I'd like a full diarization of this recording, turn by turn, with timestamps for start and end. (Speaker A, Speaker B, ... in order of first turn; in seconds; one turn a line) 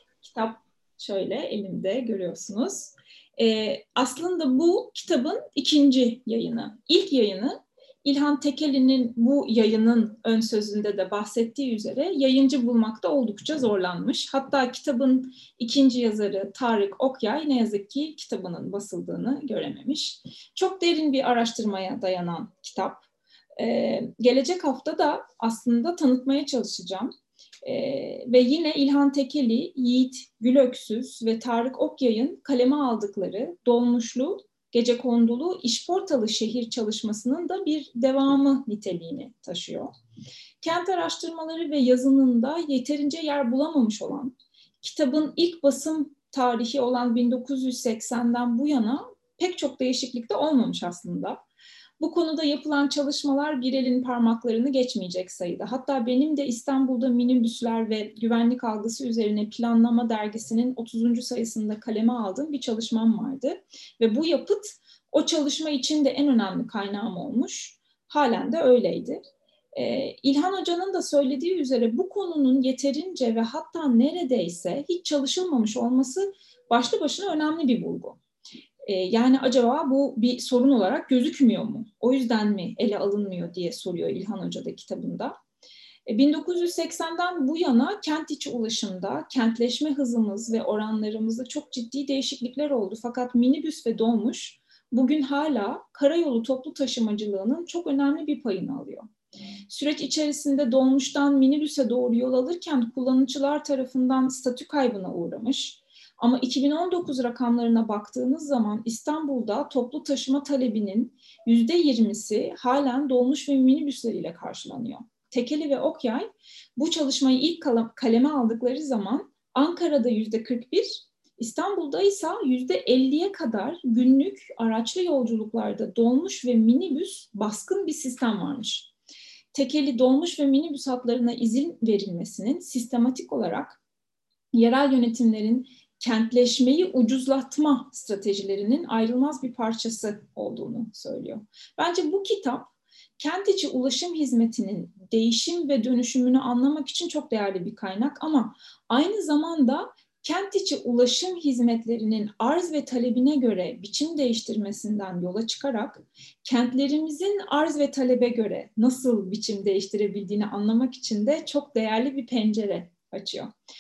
Speaker A: 0.2-23.1
Speaker A: 23.6-39.9
Speaker A: 40.6-51.4
Speaker A: 52.0-69.2
Speaker A: 69.7-78.2
Speaker A: 78.8-85.3
Speaker A: 86.1-99.1
Speaker A: 99.7-128.9
Speaker A: 129.5-133.8
Speaker A: 134.5-163.5